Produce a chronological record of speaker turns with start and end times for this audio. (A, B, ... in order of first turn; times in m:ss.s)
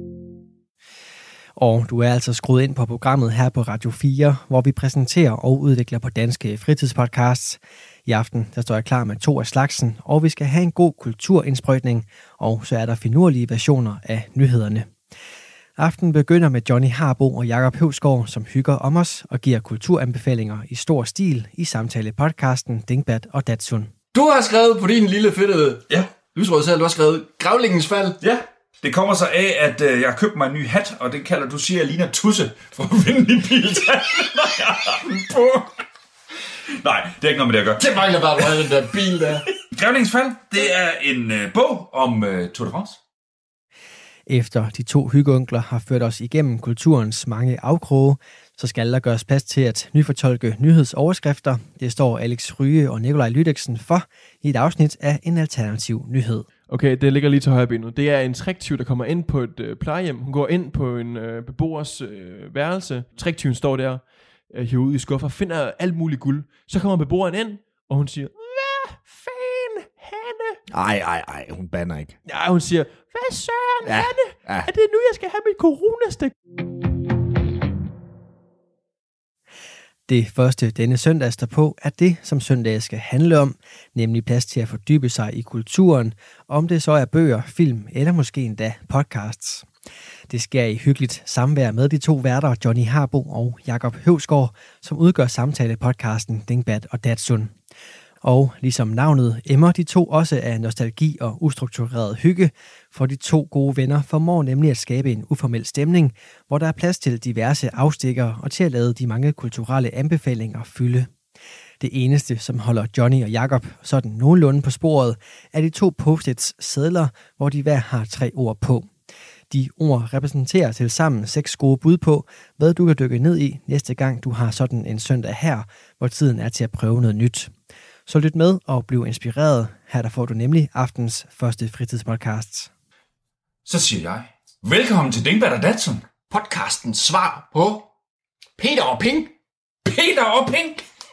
0:01.6-0:14.9 A
0:15.8-0:23.9 A
0:24.1-0:28.2 B
0:28.2-0:35.8 C
0:36.7-0:38.4 C
0:37.8-0:39.5 B
0:39.6-0:43.0 C
0:44.3-0:56.5 A
0:56.7-1:10.6 D
1:10.7-1:12.2 E
1:12.2-1:16.4 D
1:13.8-1:14.7 E
1:20.1-1:29.6 A
1:30.3-1:37.5 A
1:38.2-1:51.1 A
1:51.8-1:58.9 A
1:59.5-2:07.5 A
2:08.1-2:12.7 A
2:13.6-2:16.0 C
2:16.3-2:17.9 B
2:18.6-2:19.3 B
2:19.8-2:20.8 C